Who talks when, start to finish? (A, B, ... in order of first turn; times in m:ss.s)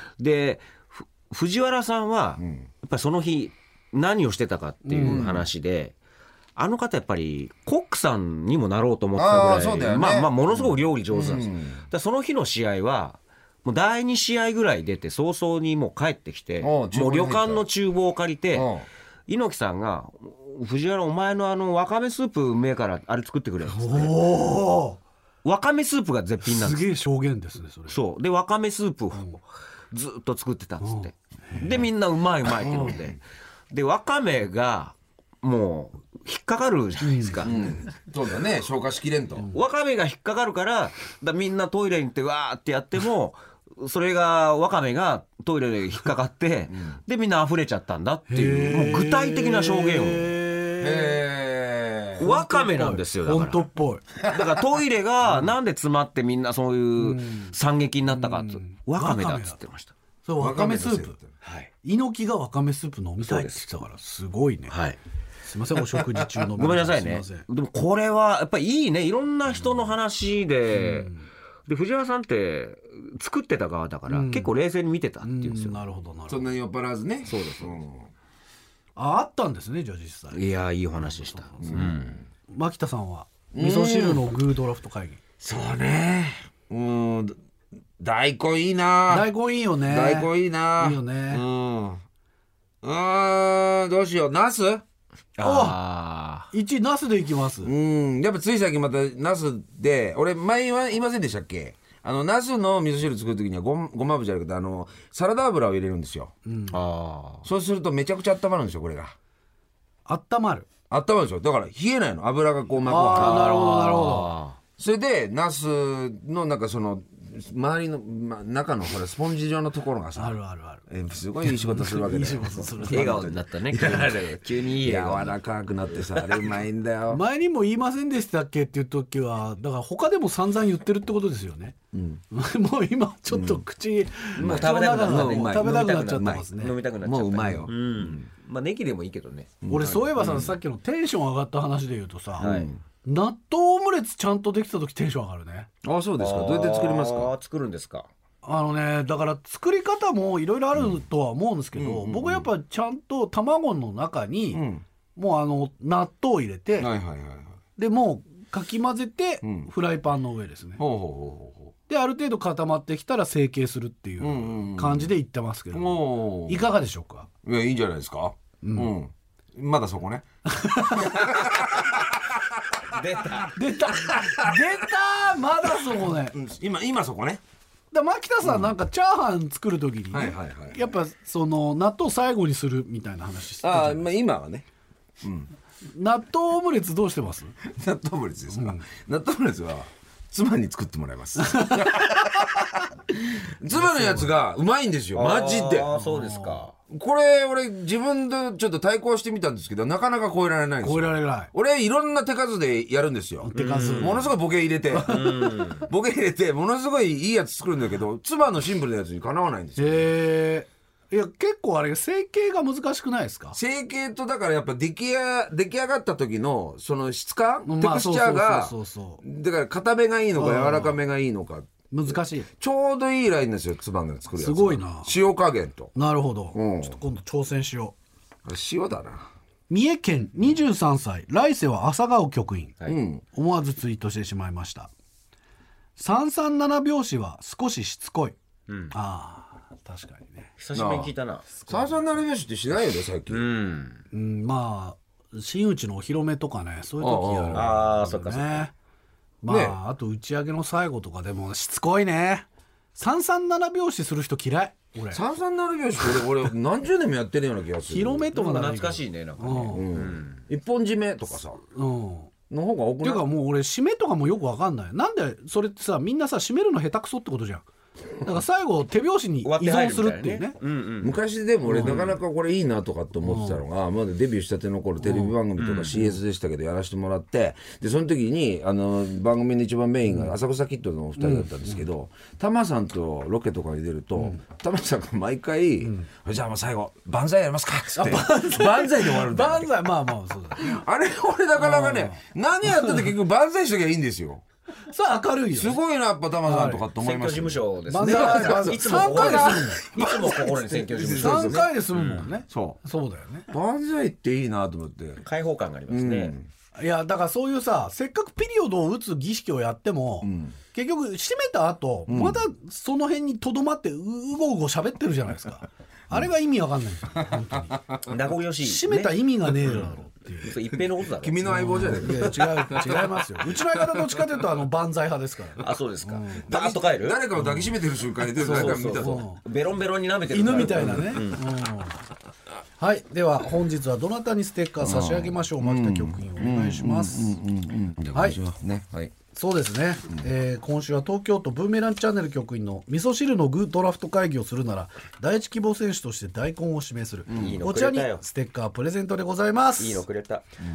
0:00.2-0:06.0 A
0:02.4-0:02.7 B
0:04.8-0:05.3 C
0:05.0-0:05.5 B
0:06.6-0:18.7 A
0:09.2-0:11.8 B
0:16.6-0:17.6 B
0:18.5-0:18.9 B
0:19.3-0:24.4 A
0:23.6-0:25.0 C
0:25.4-0:26.9 A
0:26.4-0:28.0 C
0:27.9-0:33.2 A
0:30.8-0:31.1 C
0:32.7-0:33.0 B
0:33.7-0:37.9 A
0:37.0-0:37.5 C
0:37.4-0:39.5 B
0:39.4-0:50.4 A
0:46.7-0:47.0 B
0:48.3-0:51.2 C
0:50.8-0:52.3 B
0:52.2-0:53.7 A
0:52.2-0:54.0 C
0:54.2-0:59.9 A
0:54.2-0:54.6 B
0:57.0-0:57.5 C
0:58.4-0:59.6 C
1:00.2-1:01.2 C
1:00.4-1:01.3 B
1:01.4-1:01.7 A
1:01.8-1:04.8 C
1:03.2-1:03.7 A
1:04.7-1:05.0 A
1:05.4-1:07.4 C
1:06.0-1:15.8 A
1:10.8-1:11.2 C
1:14.1-1:14.5 C
1:15.2-1:16.4 C
1:16.3-1:18.1 B
1:17.2-1:17.8 A
1:19.0-1:20.4 C
1:20.3-1:22.2 A
1:21.6-1:22.2 B
1:22.5-1:25.2 C
1:23.5-1:24.3 B
1:25.4-1:27.4 B
1:28.0-1:32.0 B
1:29.1-1:31.4 C
1:32.8-1:34.8 B
1:35.4-1:36.5 A
1:35.4-1:35.8 C
1:36.5-1:37.7 C
1:37.6-1:46.3 B
1:46.4-1:46.7 C
1:46.7-1:47.5 A
1:47.4-1:49.1 B
1:50.0-1:50.7 C
1:50.9-1:53.7 B
1:52.8-1:54.3 C
1:53.1-1:54.6 A
1:54.8-2:07.2 B
2:00.1-2:00.8 C
2:01.4-2:03.3 C
2:02.9-2:05.4 A
2:06.0-2:06.5 A
2:07.1-2:11.8 C
2:11.9-2:12.2 B
2:12.3-2:16.8 C
2:13.3-2:13.6 B
2:14.4-2:18.3 B
2:14.4-2:20.6 A
2:19.6-2:20.5 B
2:19.7-2:22.5 C
2:22.4-2:22.8 B
2:22.4-2:22.7 A
2:23.0-2:25.7 C
2:25.8-2:27.3 B
2:26.2-2:28.1 A
2:28.4-2:34.6 C
2:30.7-2:31.0 B
2:31.7-2:32.5 B
2:34.5-2:34.8 B
2:35.2-2:36.9 C
2:36.8-2:37.6 B
2:37.8-2:40.8 C
2:39.4-2:39.7 B
2:40.8-2:41.7 B
2:41.9-2:47.3 C
2:44.2-2:45.1 B
2:45.7-2:46.7 B
2:47.4-2:50.2 B
2:48.6-2:48.9 C
2:50.4-2:51.2 C
2:50.8-2:52.4 B
2:52.9-2:53.5 A
2:53.2-2:53.5 B
2:53.5-2:56.4 C
2:54.0-2:54.7 B
2:55.7-2:57.4 B
2:57.9-3:04.0 C
2:58.4-2:58.7 B
3:00.1-3:00.9 B
3:03.6-3:04.6 B
3:05.2-3:05.5 B
3:05.8-3:07.6 C
3:07.6-3:15.9 B
3:08.5-3:08.8 C
3:11.4-3:11.9 C
3:15.2-3:16.7 A
3:15.9-3:16.6 C
3:16.9-3:30.2 B
3:20.8-3:21.5 C
3:23.4-3:24.4 C
3:23.5-3:24.3 A
3:24.9-3:25.7 C
3:25.0-3:25.9 A
3:29.8-3:33.6 C
3:33.5-3:45.9 B
3:37.6-3:39.2 C
3:40.3-3:41.0 C
3:41.9-3:42.5 C
3:44.4-3:45.1 C
3:45.9-3:47.9 C
3:46.5-3:47.0 B
3:48.4-3:49.3 B
3:49.7-3:52.8 C
3:52.8-3:53.2 B
3:53.3-3:54.9 C
3:56.0-3:58.4 C
3:58.7-3:59.0 A
3:58.9-4:00.5 C
4:00.6-4:02.1 A
4:00.7-4:01.1 B
4:01.6-4:03.4 B
4:03.3-4:04.0 A
4:04.1-4:08.7 C
4:07.0-4:07.8 B
4:07.5-4:08.7 A
4:09.4-4:15.2 C
4:09.4-4:09.8 B
4:15.1-4:18.3 B
4:17.9-4:19.8 C
4:18.3-4:20.4 A
4:19.6-4:21.6 B
4:21.7-4:22.3 C
4:22.5-4:23.2 B
4:23.0-4:27.7 C
4:28.2-4:30.6 C
4:29.4-4:31.2 A
4:31.0-4:49.9 B
4:31.7-4:32.0 C
4:31.7-4:32.2 A
4:33.2-4:33.6 C
4:35.1-4:35.3 C
4:35.6-4:36.2 A
4:41.2-4:41.8 C
4:47.9-4:50.8 C
4:50.6-4:54.4 B
4:51.6-4:52.2 C
4:52.8-4:53.1 C
4:54.9-4:55.8 C
4:55.5-5:01.7 B
4:56.4-4:56.8 C
4:57.0-5:02.8 A
4:57.9-4:59.8 C
5:01.1-5:03.5 C
5:03.5-5:05.2 B
5:05.2-5:06.3 A
5:05.9-5:06.5 B
5:06.7-5:17.8 C
5:10.2-5:10.6 B
5:12.1-5:12.4 B
5:17.3-5:18.0 B
5:18.1-5:23.0 A
5:18.6-5:20.5 C
5:21.2-5:23.1 B
5:21.4-5:26.5 C
5:23.8-5:24.2 B
5:25.6-5:27.6 A
5:26.4-5:29.3 B
5:28.3-5:31.5 A
5:28.5-5:29.4 C
5:30.3-5:32.0 C
5:32.8-5:37.4 C
5:34.8-5:39.1 B
5:39.3-5:50.0 C
5:47.3-5:47.6 B
5:47.3-5:48.2 A
5:49.8-5:50.4 A